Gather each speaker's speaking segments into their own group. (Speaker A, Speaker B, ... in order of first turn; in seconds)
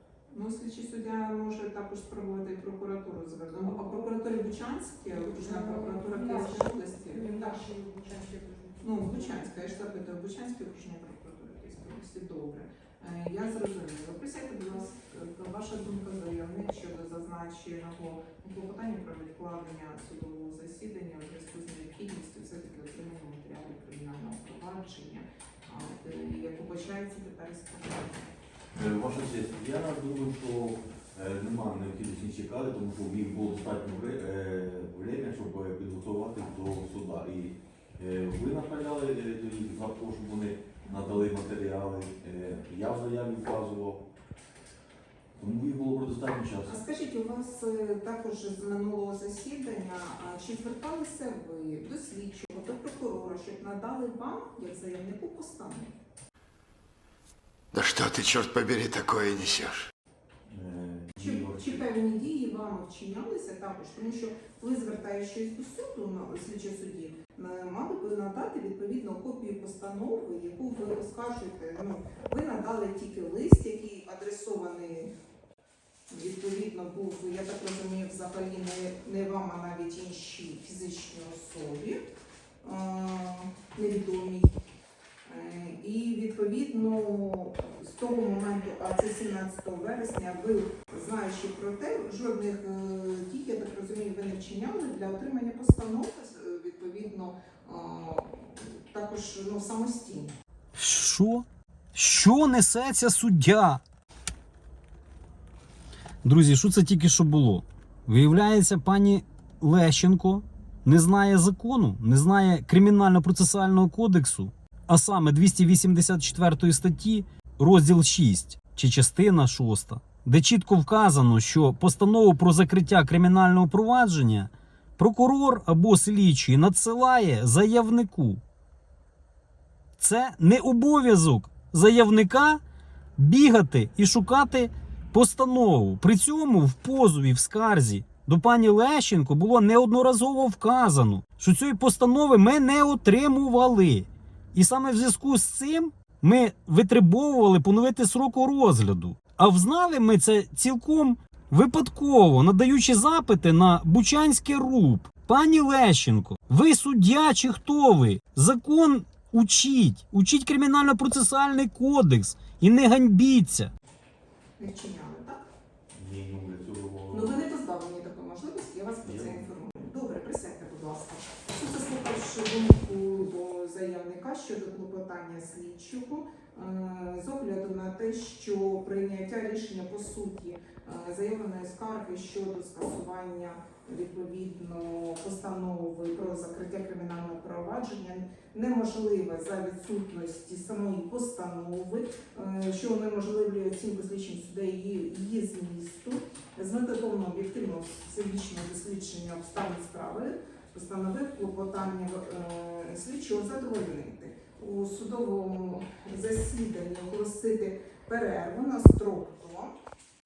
Speaker A: 0.3-7.6, 8.8-28.3, 46.6-55.9, 61.2-75.1, 76.1-82.0, 82.6-84.5, 85.2-100.3, 164.6-165.4, 167.1-209.7
Speaker B: 3.6-4.1, 5.1-9.5
Speaker C: 28.8-44.0, 45.4-46.9, 60.5-61.9, 165.9-167.4, 169.0-169.5
Speaker D: 57.7-59.9
Speaker E: 100.8-103.8, 106.2-128.4, 130.0-132.6, 133.2-163.7